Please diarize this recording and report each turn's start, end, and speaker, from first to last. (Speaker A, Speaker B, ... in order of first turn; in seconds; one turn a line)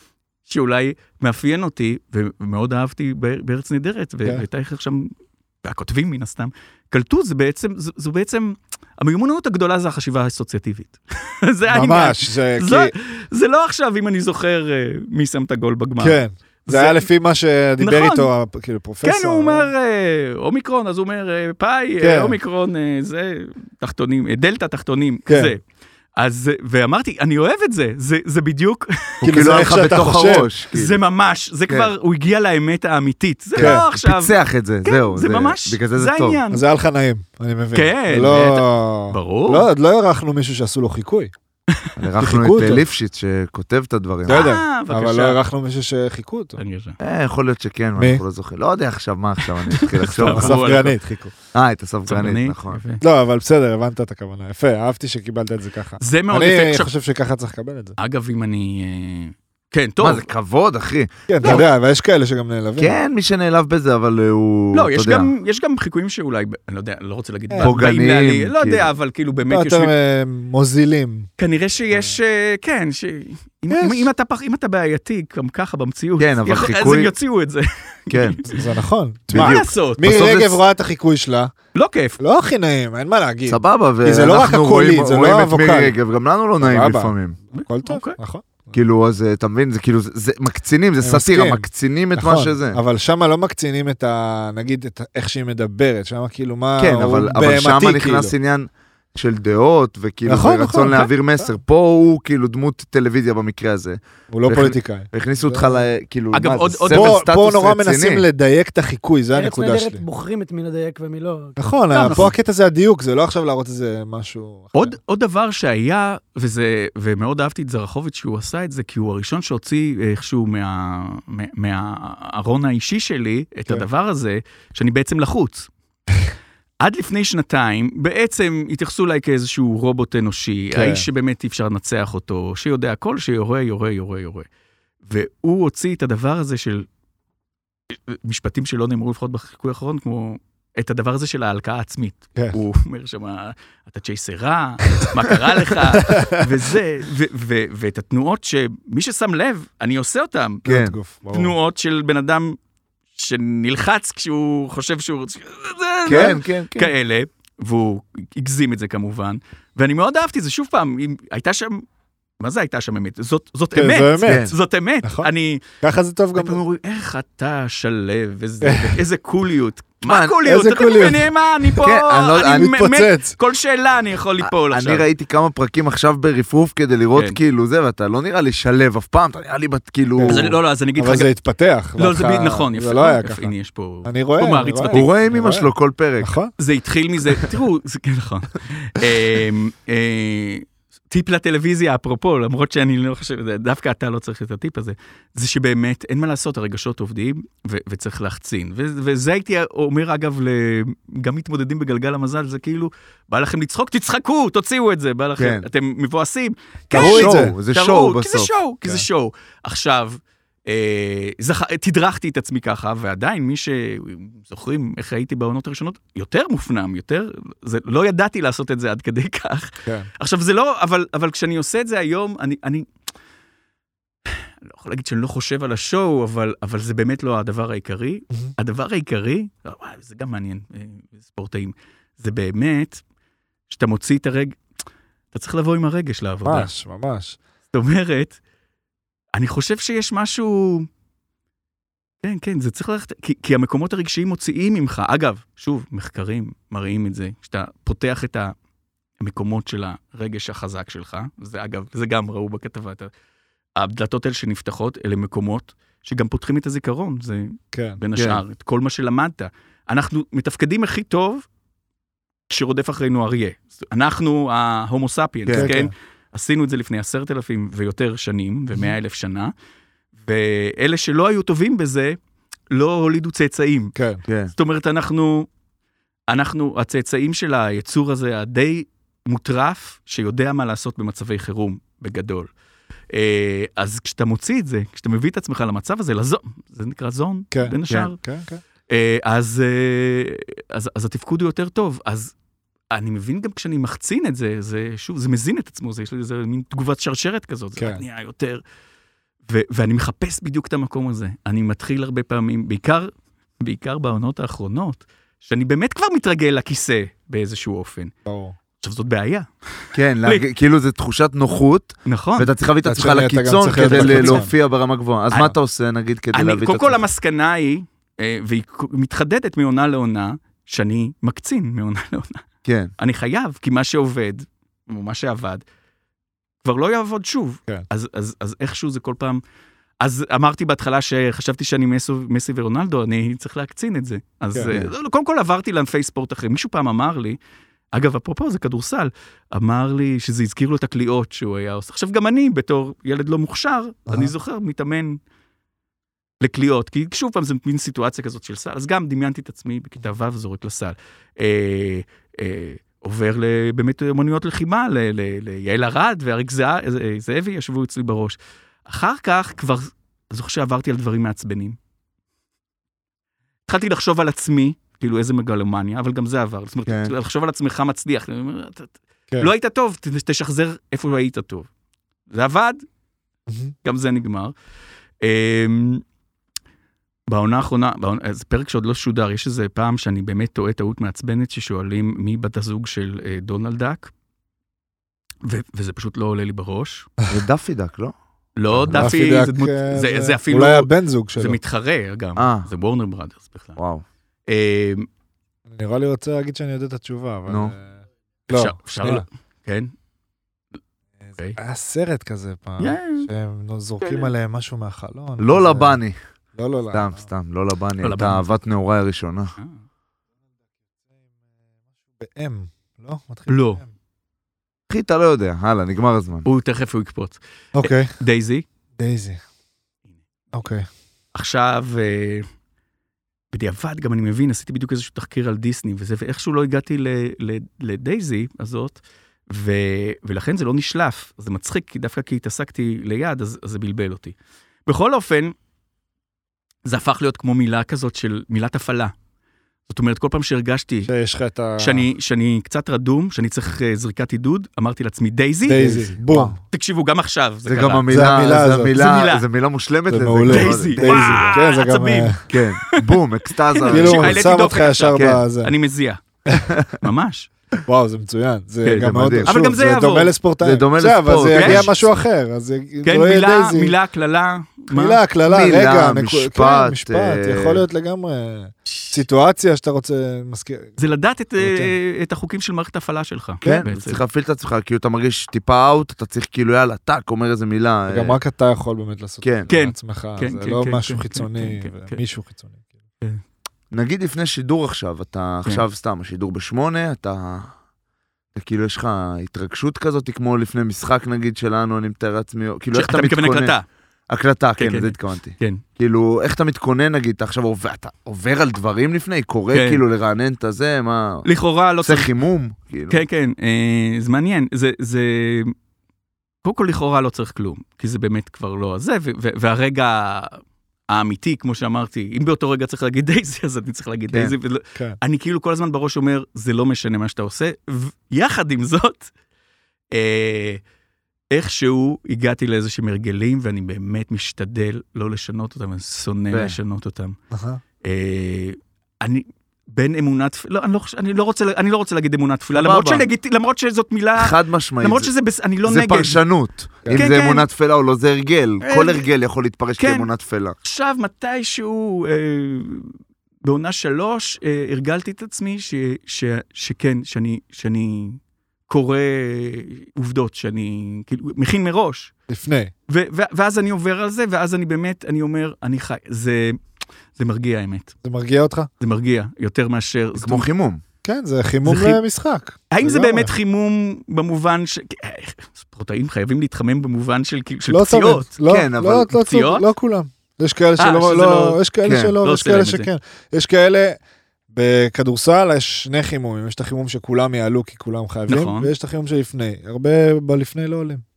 Speaker A: 0.5-17.1
Speaker B: 11.7-12.9
Speaker B: 16.0-19.7
Speaker A: 17.8-18.3
Speaker A: 19.0-25.6
Speaker B: 22.0-22.4
Speaker A: 26.2-29.4
Speaker B: 29.2-30.5
Speaker C: 29.2-31.0
Speaker A: 30.7-36.6
Speaker C: 33.5-36.4
Speaker B: 33.6-33.8
Speaker B: 36.5-41.3
Speaker A: 37.7-39.7
Speaker C: 42.0-44.5
Speaker B: 42.2-42.8
Speaker B: 44.3-46.6
Speaker A: 44.3-45.4
Speaker A: 46.6-47.0
Speaker C: 47.0-50.6
Speaker B: 48.0-48.2
Speaker A: 49.8-51.0
Speaker B: 50.1-51.3
Speaker C: 51.5-52.8
Speaker A: 52.1-53.0
Speaker B: 53.0-58.0
Speaker A: 56.0-56.9
Speaker A: 58.0-60.3
Speaker C: 60.0-61.6
Speaker B: 61.3-63.0
Speaker C: 62.8-65.3
Speaker A: 64.7-69.9
Speaker B: 67.5-67.7
Speaker C: 67.6-68.9
Speaker B: 69.5-71.3
Speaker A: 71.4-78.6
Speaker B: 73.7-74.1
Speaker C: 76.2-77.1
Speaker C: 78.1-78.4
Speaker B: 78.5-81.5
Speaker C: 79.3-80.6
Speaker A: 79.3-80.2
Speaker A: 81.7-82.2
Speaker B: 82.2-85.9
Speaker C: 83.5-87.4
Speaker B: 86.6-88.7
Speaker A: 87.5-88.2
Speaker C: 88.7-92.8
Speaker B: 91.0-98.3
Speaker C: 96.8-108.2
Speaker B: 100.2-101.5
Speaker B: 104.3-105.8
Speaker A: 106.3-107.2
Speaker B: 106.9-110.0
Speaker D: 109.3-111.7
Speaker B: 111.6-114.9
Speaker A: 111.9-112.3
Speaker A: 114.7-125.7
Speaker A: 126.8-134.4
Speaker B: 130.7-131.1
Speaker A: 135.0-136.9
Speaker A: 137.9-150.6
Speaker B: 145.9-146.4
Speaker B: 150.6-151.5
Speaker C: 150.7-150.9
Speaker A: 151.3-152.6
Speaker A: 153.1-161.8
Speaker C: 156.1-156.9
Speaker A: 162.4-165.6
Speaker B: 163.7-164.5
Speaker C: 164.2-164.6
Speaker B: 165.0-165.3
Speaker B: 165.8-166.6
Speaker A: 166.3-175.0
Speaker B: 168.6-169.0
Speaker C: 170.1-170.4
Speaker B: 170.4-171.3
Speaker C: 171.8-172.8
Speaker B: 172.4-173.3
Speaker C: 174.4-180.5
Speaker B: 180.2-183.5
Speaker A: 180.3-181.3
Speaker A: 182.0-185.1
Speaker B: 184.0-186.5
Speaker C: 184.9-186.3
Speaker A: 186.6-222.9
Speaker C: 205.4-205.7
Speaker C: 206.9-208.5
Speaker B: 206.9-207.6
Speaker A: 224.3-233.0
Speaker A: 233.7-234.6
Speaker A: 235.3-236.7
Speaker B: 236.4-237.4
Speaker A: 237.7-238.4
Speaker A: 239.3-240.9
Speaker A: 242.2-248.5
Speaker A: 249.2-253.1
Speaker A: 253.8-261.4
Speaker B: 257.7-258.0
Speaker C: 258.1-258.4
Speaker A: 262.5-269.5
Speaker B: 265.5-265.9
Speaker A: 270.2-272.2
Speaker A: 272.7-273.9
Speaker B: 273.9-274.2
Speaker C: 274.3-274.5
Speaker A: 274.5-275.5
Speaker A: 276.3-282.5
Speaker A: 283.1-288.2
Speaker B: 287.5-288.6
Speaker A: 288.9-292.3
Speaker A: 292.9-298.6
Speaker B: 297.8-298.0
Speaker A: 299.5-308.1
Speaker B: 308.2-308.5
Speaker A: 308.8-310.4
Speaker C: 309.9-317.0
Speaker A: 312.1-312.5
Speaker B: 312.8-314.5
Speaker A: 313.8-314.5
Speaker A: 316.3-322.4
Speaker C: 322.6-322.9
Speaker A: 323.0-325.6
Speaker A: 326.6-329.4
Speaker A: 330.0-337.4
Speaker B: 334.5-334.9
Speaker A: 337.9-345.2
Speaker B: 344.1-344.3
Speaker A: 346.4-361.8
Speaker A: 363.7-371.7
Speaker C: 366.9-367.1
Speaker A: 372.3-372.8
Speaker B: 373.5-373.7
Speaker A: 373.8-374.5
Speaker A: 375.2-376.0
Speaker A: 377.3-384.1
Speaker A: 385.4-387.1
Speaker C: 387.3-388.1
Speaker A: 388.6-393.8
Speaker C: 388.7-389.1
Speaker B: 388.9-391.6
Speaker C: 392.4-392.7
Speaker C: 393.8-394.0
Speaker A: 394.5-395.1
Speaker B: 395.7-397.9
Speaker C: 397.5-397.7
Speaker B: 398.5-399.2
Speaker A: 398.5-399.9
Speaker B: 401.6-406.0
Speaker A: 402.8-403.3
Speaker A: 404.0-404.3
Speaker C: 405.4-406.2
Speaker B: 406.6-407.2
Speaker C: 406.9-409.6
Speaker A: 408.0-408.4
Speaker B: 412.2-413.9
Speaker A: 413.5-413.8
Speaker C: 414.9-416.5
Speaker A: 416.4-418.6
Speaker B: 417.8-418.1
Speaker B: 419.0-419.4
Speaker B: 420.5-420.9
Speaker A: 421.3-422.5
Speaker A: 423.5-435.5
Speaker A: 436.8-439.1
Speaker A: 439.9-441.1
Speaker B: 441.1-442.1
Speaker A: 441.8-446.1
Speaker B: 445.6-446.6
Speaker C: 445.8-446.5
Speaker A: 446.7-448.1
Speaker C: 447.6-451.4
Speaker B: 448.1-449.0
Speaker A: 448.9-449.4
Speaker B: 450.1-452.4
Speaker A: 450.5-453.1
Speaker C: 452.5-454.4
Speaker A: 453.7-456.2
Speaker B: 453.9-455.7
Speaker C: 455.1-455.4
Speaker C: 456.7-457.0
Speaker A: 457.0-457.5
Speaker B: 457.9-463.9
Speaker A: 458.8-460.3
Speaker C: 459.0-459.5
Speaker C: 460.6-462.0
Speaker A: 461.5-461.9
Speaker A: 463.0-465.2
Speaker B: 464.9-470.9
Speaker C: 465.5-467.8
Speaker A: 468.9-469.1
Speaker A: 471.0-474.2
Speaker B: 471.6-471.9
Speaker B: 473.6-473.9
Speaker C: 473.6-478.4
Speaker B: 478.1-482.8
Speaker C: 479.4-479.7
Speaker A: 479.7-482.2
Speaker C: 483.9-487.7
Speaker C: 488.5-493.7
Speaker A: 492.9-493.8
Speaker C: 494.3-501.4
Speaker A: 494.8-495.8
Speaker A: 499.7-500.0
Speaker A: 501.4-502.3
Speaker C: 502.0-503.2
Speaker A: 503.1-505.7
Speaker A: 506.6-519.3
Speaker A: 520.1-520.8
Speaker A: 521.5-527.4
Speaker C: 526.5-526.8
Speaker B: 527.5-527.8
Speaker A: 528.0-536.4
Speaker C: 532.7-533.3
Speaker C: 534.4-535.3
Speaker C: 535.8-540.8
Speaker A: 537.1-537.6
Speaker A: 538.8-539.3
Speaker A: 540.0-540.3
Speaker A: 540.8-552.3
Speaker B: 552.5-552.9
Speaker A: 553.1-556.8
Speaker A: 557.4-558.1
Speaker B: 558.2-558.9
Speaker A: 559.0-560.6
Speaker C: 560.4-561.0
Speaker B: 561.2-563.5
Speaker A: 561.8-562.2
Speaker A: 562.9-568.5
Speaker B: 567.9-574.2
Speaker C: 568.6-569.3
Speaker A: 569.4-569.9
Speaker A: 571.0-571.8
Speaker C: 572.0-572.4
Speaker A: 572.4-573.1
Speaker B: 574.7-581.2
Speaker A: 578.5-578.9